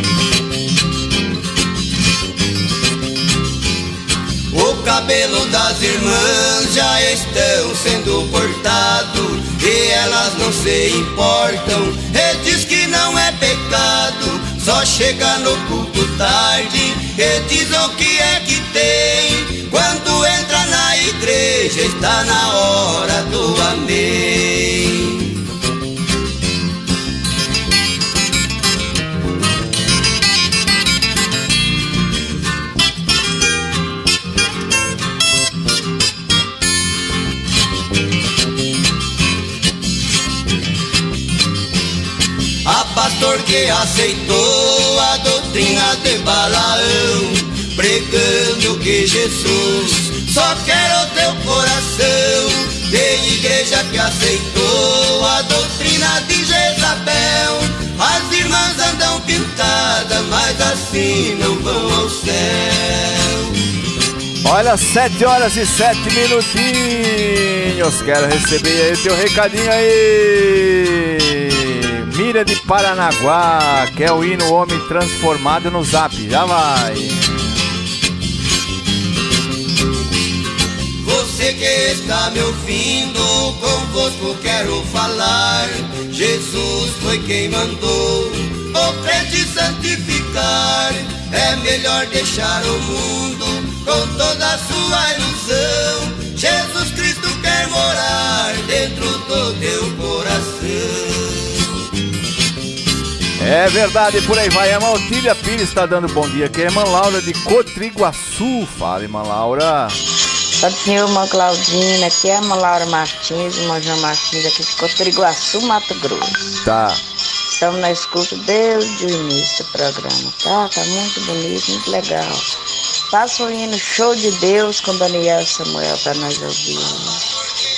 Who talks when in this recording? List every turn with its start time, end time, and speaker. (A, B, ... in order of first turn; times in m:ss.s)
0:04.5-0:25.2 A
0:42.7-1:03.3 A
1:04.4-1:17.3 B
1:21.0-1:41.2 A
1:43.4-1:50.0 B
1:50.6-1:56.6 C
1:56.6-1:57.0 B
1:57.5-2:02.5 C
2:03.1-2:07.2 C